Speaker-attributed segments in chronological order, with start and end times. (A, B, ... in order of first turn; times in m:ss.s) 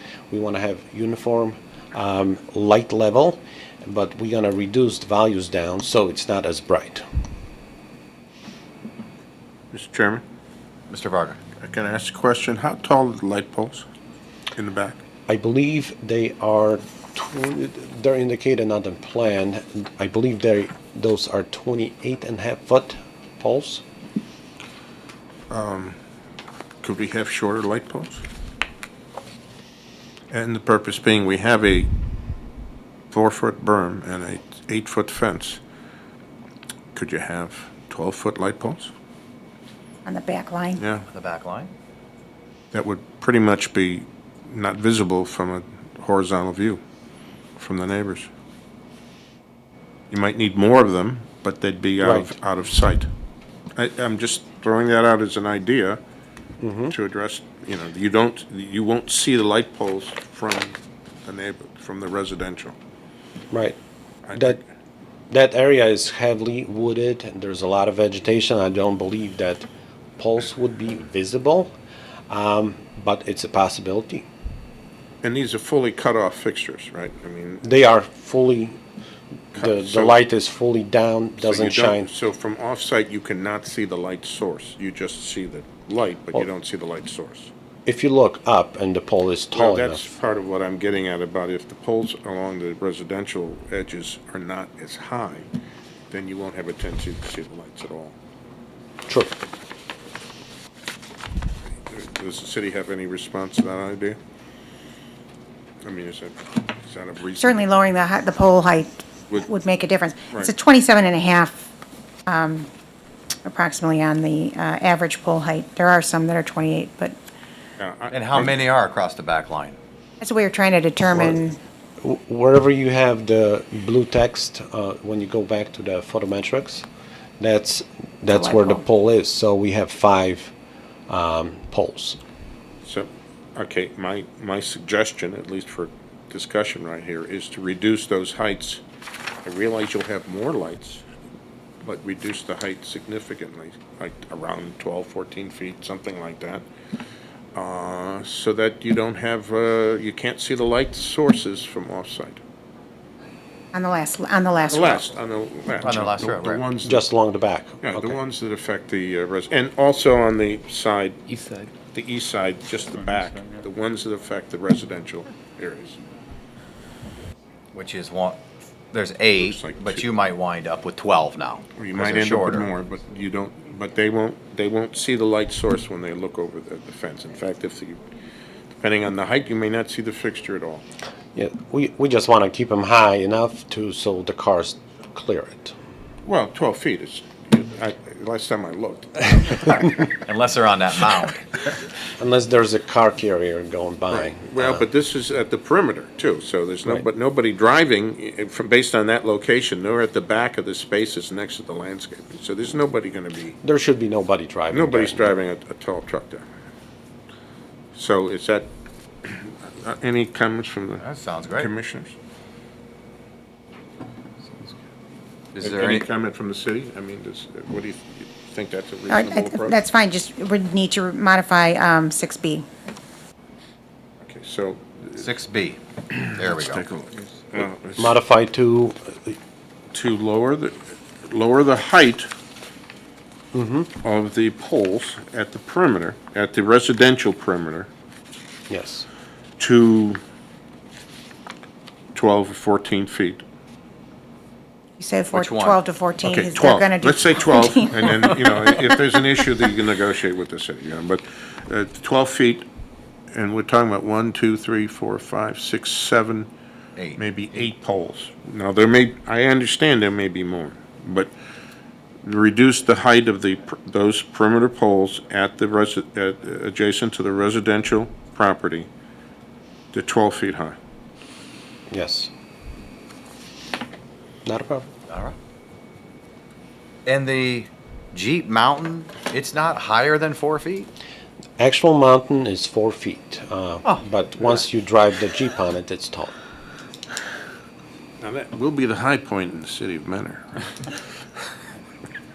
0:00.3-0:07.0 A
0:09.7-0:10.2 B
0:10.9-0:11.4 C
0:11.6-0:13.9 B
0:14.5-0:15.0 B
0:15.3-0:23.8 A
0:25.5-0:26.0 B
0:26.8-0:28.2 B
0:30.3-0:31.9 B
0:33.1-0:35.6 B
0:37.0-0:38.9 B
0:40.0-0:40.8 D
0:40.8-0:41.1 B
0:41.1-0:41.7 C
0:42.7-0:46.8 B
0:47.6-0:48.3 B
0:50.1-0:53.1 B
0:52.0-0:52.3 A
0:53.8-0:56.0 B
0:56.6-0:57.0 A
0:56.9-1:02.8 B
1:03.5-1:03.8 A
1:04.2-1:04.6 B
1:04.3-1:04.6 A
1:05.3-1:11.7 A
1:12.3-1:14.3 A
1:15.2-1:17.7 B
1:17.6-1:18.8 A
1:19.5-1:20.2 B
1:19.5-1:22.1 A
1:21.4-1:27.5 B
1:27.9-1:30.1 A
1:29.5-1:35.5 B
1:36.1-1:38.2 B
1:39.1-1:39.3 A
1:41.9-1:44.2 B
1:45.8-1:47.7 B
1:47.4-1:51.7 D
1:52.3-1:52.7 D
1:53.4-1:57.2 D
1:57.8-1:58.6 B
1:58.1-1:59.8 C
2:00.2-2:01.6 D
2:01.1-2:01.4 A
2:02.0-2:06.9 A
2:07.4-2:10.5 A
2:08.3-2:08.8 D
2:11.1-2:12.2 A
2:12.8-2:18.8 B
2:19.4-2:21.0 B
2:21.8-2:26.6 B
2:27.5-2:32.4 B
2:33.7-2:35.1 D
2:34.7-2:37.1 B
2:35.8-2:36.7 C
2:36.8-2:38.2 A
2:37.8-2:41.2 B
2:41.8-2:46.0 B
2:47.7-2:48.4 C
2:48.9-2:52.7 C
2:49.3-2:50.1 B
2:51.7-2:58.0 B
2:58.8-3:00.8 B
3:01.4-3:05.7 A
3:06.2-3:09.6 B
3:09.5-3:11.5 C
3:12.2-3:14.5 A
3:14.1-3:23.6 B
3:23.6-3:25.3 A
3:24.7-3:26.5 B
3:27.9-3:28.7 B
3:29.2-3:32.2 B
3:31.0-3:31.7 C
3:35.6-3:36.0 C
3:35.6-3:39.8 B
3:39.1-3:42.7 D
3:44.2-3:45.3 B
3:45.2-3:45.8 C
3:46.1-3:48.2 B
3:46.4-3:46.8 C
3:48.0-3:49.4 A
3:49.9-3:52.3 B
3:53.5-3:53.9 A
3:54.0-3:57.9 B
3:58.7-3:59.1 A
3:59.6-4:00.2 B
4:02.1-4:03.4 B
4:05.0-4:08.0 D
4:05.3-4:05.8 C
4:06.2-4:12.7 B
4:13.3-4:16.5 B
4:17.0-4:17.7 C
4:17.2-4:21.3 B
4:22.2-4:28.9 B
4:29.9-4:30.8 B
4:31.9-4:32.3 A
4:34.4-4:34.9 A
4:35.1-4:35.4 C
4:37.1-4:40.9 C
4:41.6-4:46.4 A
4:48.2-4:51.0 B